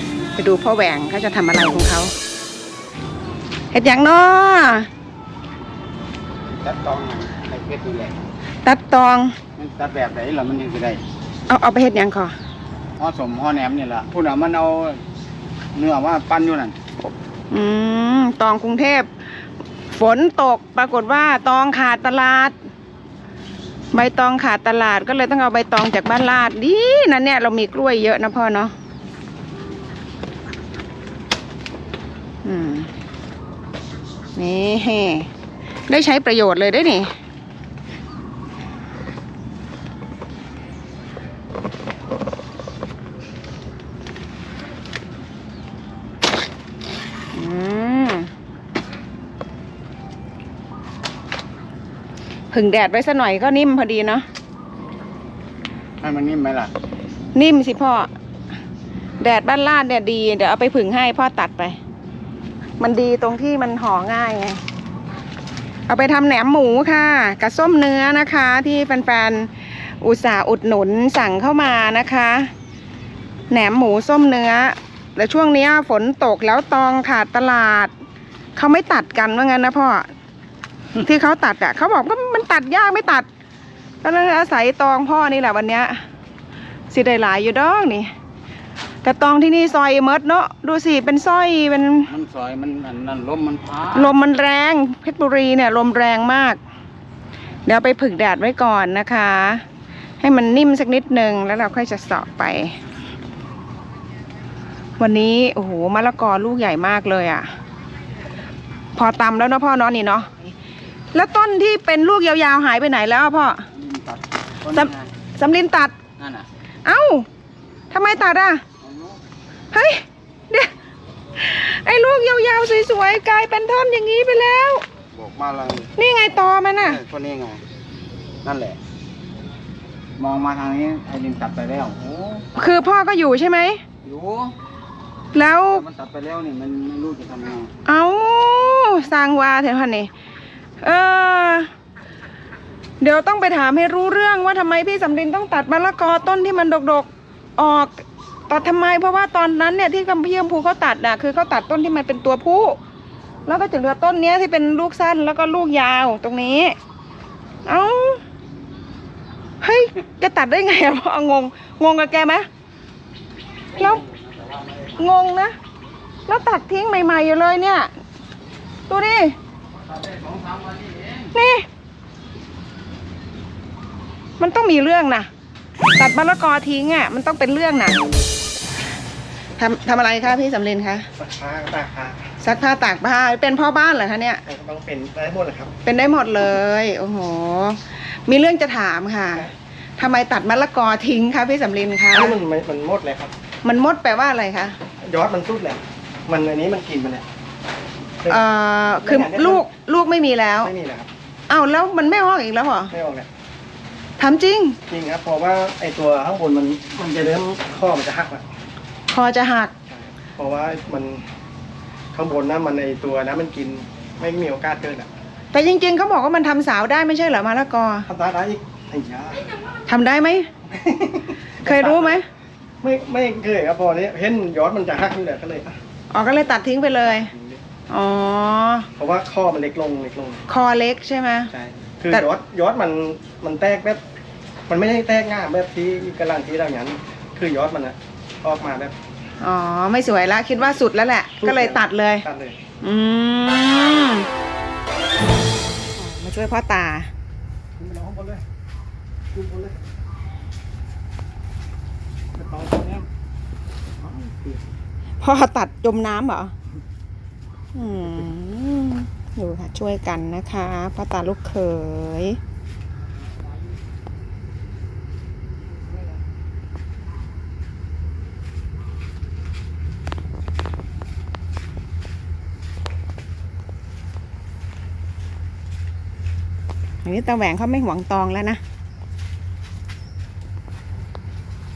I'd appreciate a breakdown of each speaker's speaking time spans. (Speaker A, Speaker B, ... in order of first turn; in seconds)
Speaker A: 0.3-2.1, 3.7-4.9, 8.6-9.3, 11.5-12.3, 17.5-19.1, 19.9-22.6, 23.9-28.7, 32.4-32.9, 34.4-35.3, 35.9-37.1, 47.3-48.3, 52.5-54.2, 57.3-58.1, 59.2-61.8, 62.8-64.6, 65.9-72.5, 73.5-77.9, 78.5-80.1, 81.0-83.3, 84.0-86.0, 86.9-88.1, 89.0-92.1, 93.9-96.6, 97.6-99.6, 100.2-102.8, 105.0-107.5, 108.9-110.3, 111.1-113.7, 114.7-116.0, 116.8-117.2, 117.9-118.6, 119.7-120.7, 121.3-124.8, 126.0-127.0, 132.5-133.8, 135.3-135.8, 137.8-140.1, 140.8-141.7, 143.0-152.8, 153.4-156.8, 157.6-158.2, 159.6-162.4, 163.8-164.0, 165.0-165.5, 166.2-167.9, 168.9-169.3, 171.3-171.7, 174.4-175.3, 175.9-178.0, 179.6-181.1, 182.4-184.4, 185.8-192.3, 193.6-194.8, 198.3-200.7, 201.5-202.9, 204.2-204.8, 209.1-209.7, 215.5-218.1, 219.9-220.5, 221.6-222.3, 226.1-227.3, 227.9-228.9, 230.5-231.5, 239.4-242.2, 242.8-244.3, 245.9-247.1, 255.2-256.5, 257.7-262.4, 277.0-278.6
Speaker B: 6.6-8.2, 9.6-11.0, 13.0-15.0, 15.7-16.8, 56.0-56.7, 92.1-94.1, 113.7-115.1, 116.2-116.5, 118.8-119.2, 125.1-125.9, 126.8-127.6, 128.4-128.8, 130.2-132.4, 134.0-134.5, 135.7-137.7, 163.7-165.0, 169.8-171.3
Speaker C: 181.2-182.2, 184.5-185.7, 192.1-193.3, 195.0-197.2, 199.0-199.6, 200.6-201.1, 202.9-203.3, 204.9-208.4, 209.9-211.2, 212.1-215.1, 218.1-219.5, 220.7-222.2, 222.8-225.8, 227.0-227.6, 229.0-230.4, 231.5-234.0, 234.7-238.9, 241.4-242.6, 247.8-248.4, 249.3-249.8, 252.3-253.1, 254.0-254.5